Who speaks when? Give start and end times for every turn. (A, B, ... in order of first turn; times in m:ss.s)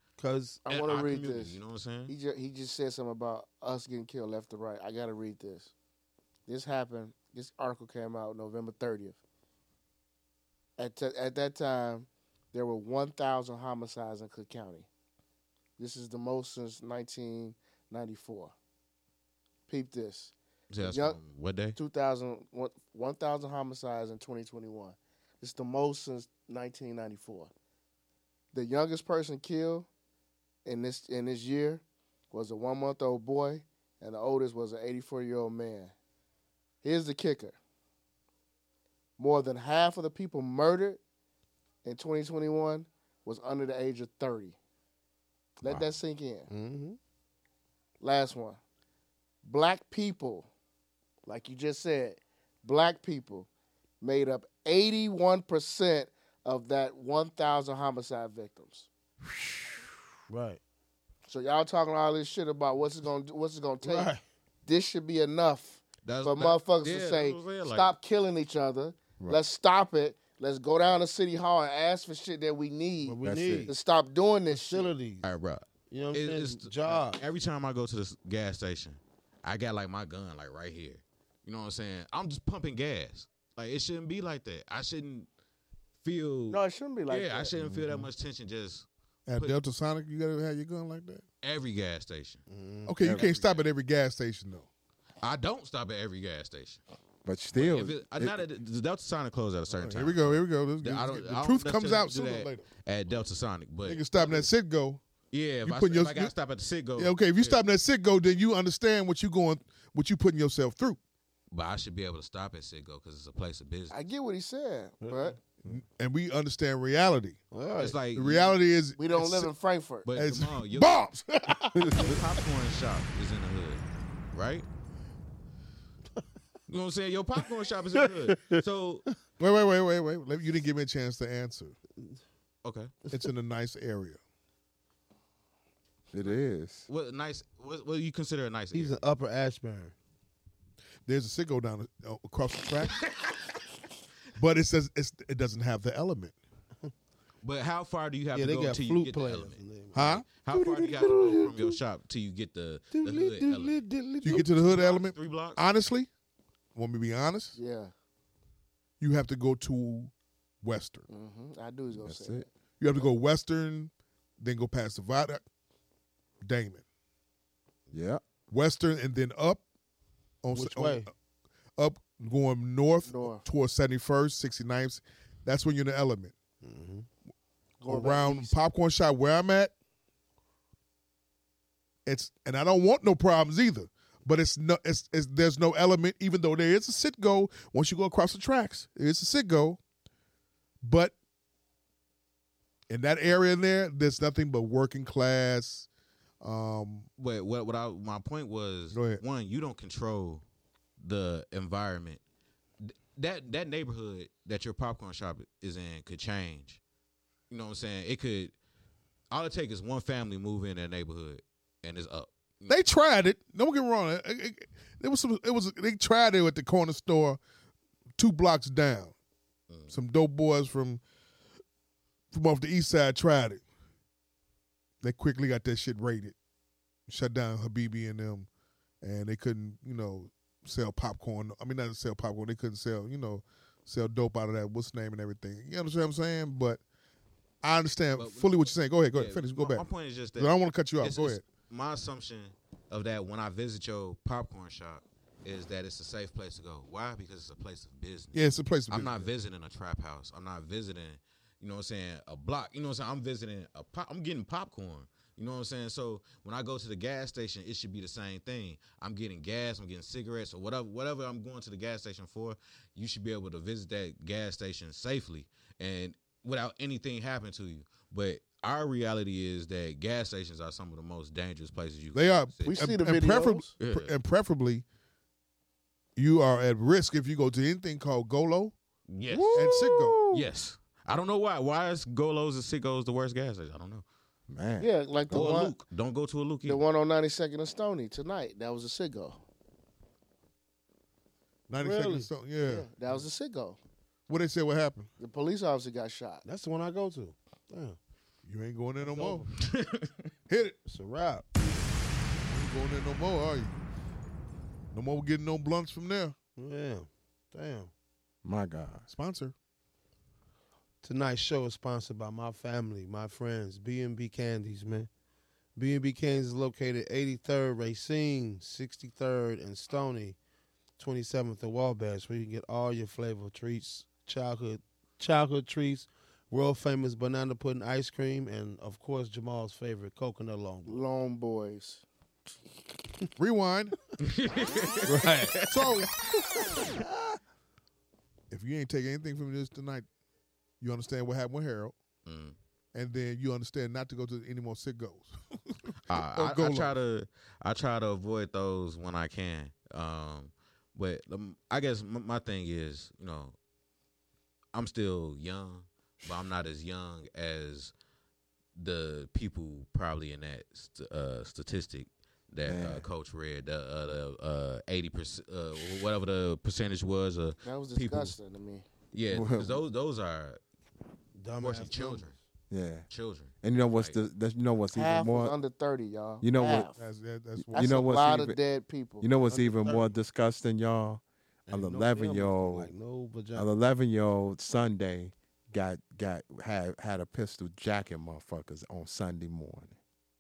0:00.2-0:00.7 A
0:00.7-0:05.7 B
0:00.7-0:02.1 C
0:06.5-0:09.2 B
0:10.8-0:14.9 B
0:15.8-0:18.5 B
0:19.7-0:21.2 B
0:20.7-0:21.8 C
0:21.8-0:27.5 B
0:28.5-0:29.9 B
0:30.6-0:35.9 B
0:36.8-0:37.6 B
0:39.2-0:41.0 B
0:41.8-0:44.6 B
0:45.6-0:46.5 B
0:46.5-0:47.0 A
0:48.0-0:48.6 B
0:49.4-0:50.5 B
0:51.2-0:53.5 B
0:54.0-0:58.9 B
1:00.3-1:00.6 A
1:01.3-1:04.1 B
1:03.8-1:04.2 A
1:04.7-1:14.9 B
1:06.0-1:07.9 C
1:13.0-1:13.7 A
1:13.2-1:13.7 D
1:14.5-1:15.2 A
1:15.2-1:25.3 C
1:15.9-1:17.2 A
1:26.0-1:29.6 C
1:26.5-1:27.5 B
1:27.6-1:28.1 D
1:29.3-1:31.2 E
1:31.4-1:32.4 C
1:32.5-1:33.0 A
1:32.9-1:34.7 E
1:33.0-1:33.3 D
1:33.1-1:33.6 C
1:35.2-1:36.8 C
1:37.2-1:38.4 D
1:37.5-1:44.4 C
1:39.7-1:42.7 E
1:43.8-1:45.0 E
1:45.3-1:47.6 C
1:45.6-1:46.3 E
1:47.0-1:51.0 E
1:51.5-1:54.0 C
1:53.9-1:55.4 B
1:55.0-1:55.3 A
1:55.6-1:57.4 E
1:57.5-1:58.0 A
1:57.8-1:58.6 C
1:58.1-1:59.5 E
1:59.0-2:00.1 B
2:00.0-2:01.1 C
2:00.2-2:02.4 E
2:01.8-2:02.1 D
2:01.9-2:04.7 C
2:06.7-2:09.1 C
2:08.1-2:08.6 A
2:09.4-2:11.8 E
2:12.6-2:13.0 C
2:13.1-2:14.2 E
2:16.1-2:16.9 D
2:16.2-2:19.0 C
2:18.7-2:19.9 A
2:21.1-2:23.0 E
2:22.9-2:23.4 C
2:24.4-2:26.3 E
2:27.4-2:35.6 C
2:28.3-2:31.8 A
2:29.9-2:30.3 E
2:32.9-2:34.5 A
2:34.2-2:36.1 E
2:36.8-2:37.6 E
2:37.6-2:37.9 B
2:39.0-2:41.1 E
2:41.1-2:42.5 B
2:41.9-2:42.5 D
2:42.8-2:45.4 E
2:46.4-2:46.8 E
2:47.9-2:48.2 D
2:48.5-2:49.6 E
2:50.4-2:51.1 E
2:50.5-2:51.1 A
2:51.8-2:56.3 E
2:53.0-2:53.5 B
2:56.6-2:57.1 A
2:57.8-2:58.5 B
2:57.9-2:59.7 E
3:02.1-3:09.8 E
3:10.8-3:11.2 E
3:12.9-3:15.9 E
3:16.4-3:17.1 E
3:17.2-3:20.4 C
3:18.9-3:19.2 E
3:21.0-3:22.2 C
3:22.8-3:26.8 C
3:27.5-3:28.5 C
3:29.3-3:32.7 C
3:32.7-3:37.4 E
3:38.2-3:39.1 E
3:39.9-3:41.0 E
3:42.3-3:43.6 E
3:45.0-3:46.4 E
3:47.1-3:48.5 E
3:49.0-3:56.8 E
3:57.6-4:01.4 E
3:58.2-4:32.8 C
4:08.3-4:09.3 E
4:32.1-4:34.8 E
4:32.7-4:33.7 B
4:33.8-4:34.1 C
4:36.2-4:38.7 E
4:39.1-4:44.0 C
4:39.3-4:40.5 D
4:39.5-4:40.2 E
4:44.5-4:45.6 D
4:44.8-4:45.8 B
4:45.3-4:46.8 C
4:46.6-4:49.4 B
4:51.7-4:52.9 E
4:51.7-4:52.3 A
4:52.6-4:53.8 B
4:54.3-4:55.1 E
4:55.2-4:56.4 B
4:56.4-4:58.0 A
4:58.5-4:59.5 E
4:59.0-4:59.5 A
4:59.6-5:00.3 C
5:00.5-5:00.8 E
5:00.9-5:01.6 A
5:02.5-5:03.8 E
5:04.9-5:06.4 E
5:06.6-5:07.9 A
5:08.4-5:09.1 D
5:09.1-5:09.5 E
5:11.0-5:15.1 A
5:15.8-5:20.4 A
5:21.0-5:31.0 A
5:30.9-5:32.0 B
5:33.4-5:34.1 E
5:34.2-5:36.6 C
5:35.1-5:35.6 A
5:35.7-5:36.1 E
5:38.5-5:40.1 E
5:40.8-5:42.0 E
5:42.2-5:42.6 C
5:42.9-5:46.9 E
5:46.1-5:53.6 C
5:54.7-5:57.9 C
5:58.8-6:08.4 C
6:02.6-6:03.1 D
6:07.6-6:08.9 B
6:09.1-6:10.6 C
6:09.3-6:09.8 D
6:11.4-6:12.3 A
6:11.6-6:12.4 C
6:12.7-6:13.1 D
6:13.1-6:14.2 C
6:13.6-6:15.6 D
6:14.9-6:17.0 B
6:16.4-6:16.9 D
6:17.0-6:18.2 E
6:17.6-6:18.6 D
6:17.7-6:19.3 B
6:19.2-6:22.9 D
6:19.5-6:20.1 A
6:21.7-6:23.7 A
6:23.5-6:30.0 D